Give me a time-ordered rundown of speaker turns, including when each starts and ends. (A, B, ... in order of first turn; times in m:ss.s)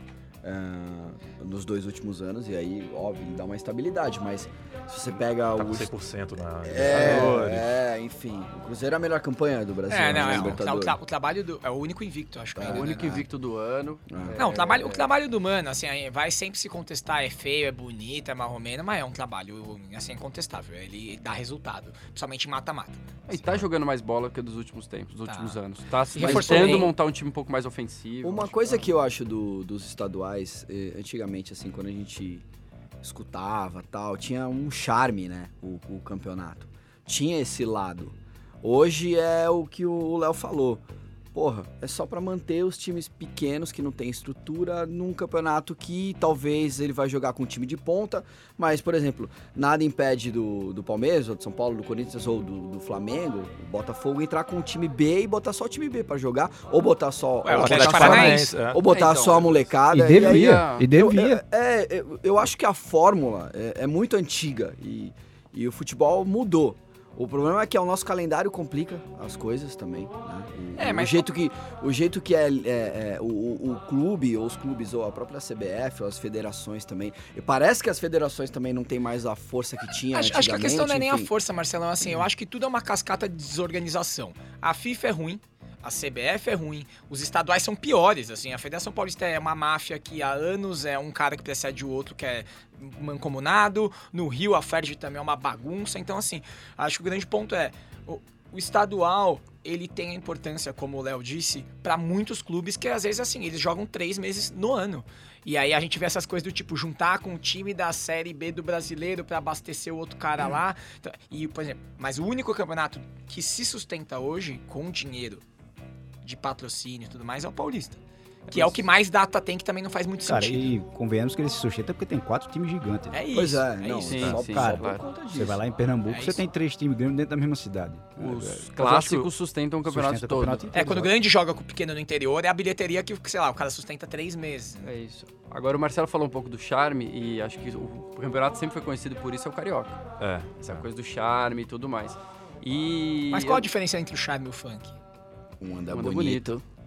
0:00.4-0:05.9 A
0:05.6-0:07.8 B
0:06.6-0:11.0 A
0:07.0-0:07.3 C
0:09.9-0:13.2 D
0:12.6-0:13.2 A
0:12.6-0:14.0 C
0:14.1-0:14.7 A
0:14.2-0:15.0 E
0:14.4-0:23.3 D
0:23.3-0:28.9 C
0:25.3-0:25.6 D
0:26.1-0:26.9 D
0:26.2-0:26.9 A
0:28.2-0:32.4 A
0:33.0-1:21.3 A
0:57.4-0:58.5 D
0:57.5-0:58.8 B
0:58.8-1:00.9 C
0:59.9-1:01.4 E
1:10.8-1:11.3 D
1:20.1-1:55.4 D
1:56.2-2:00.8 D
1:58.5-1:58.8 B
2:00.2-2:03.2 E
2:03.1-2:04.4 D
2:03.3-2:05.6 A
2:04.0-2:05.0 C
2:04.5-2:09.3 E
2:06.1-2:06.4 D
2:08.2-2:10.7 C
2:09.8-2:11.1 E
2:10.7-2:14.9 D
2:14.8-2:20.0 C
2:20.2-2:20.9 B
2:20.6-2:23.7 C
2:23.3-2:25.0 D
2:25.6-2:26.5 A
2:25.9-2:26.6 C